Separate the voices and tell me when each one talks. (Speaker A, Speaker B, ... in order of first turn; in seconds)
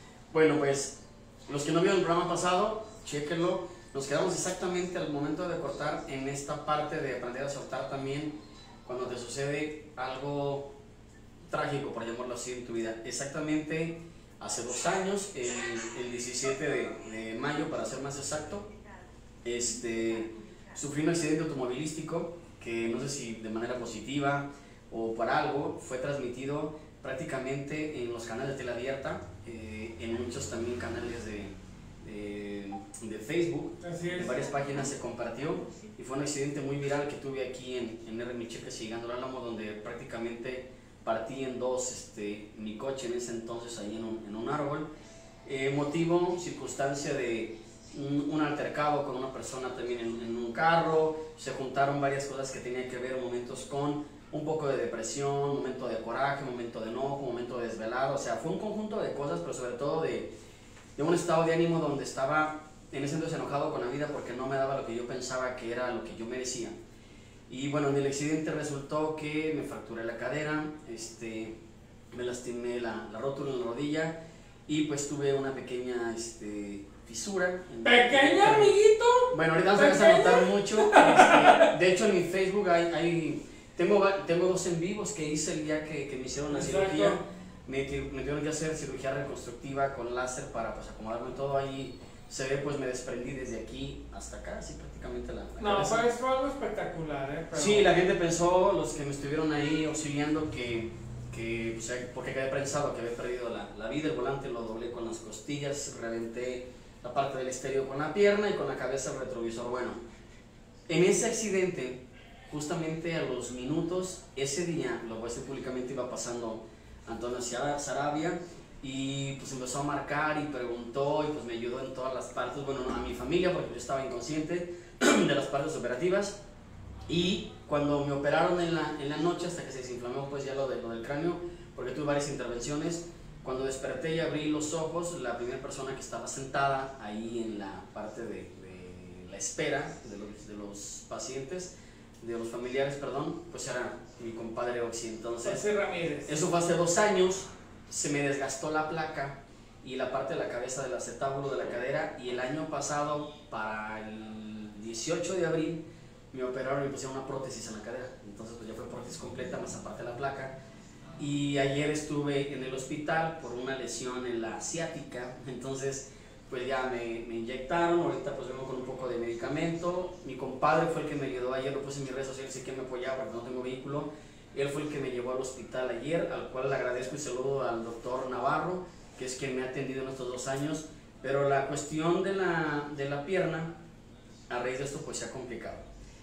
Speaker A: 0.3-10.7, 11.5-18.7, 19.4-44.9, 45.4-60.3, 61.0-66.8, 67.5-71.6, 72.1-78.8, 79.3-96.0, 97.5-110.0, 110.9-126.4, 127.1-145.6, 146.2-160.6, 161.2-183.8, 184.5-185.9
Speaker B: 33.8-34.4, 77.8-81.7, 86.5-87.2, 95.6-97.9, 145.4-146.4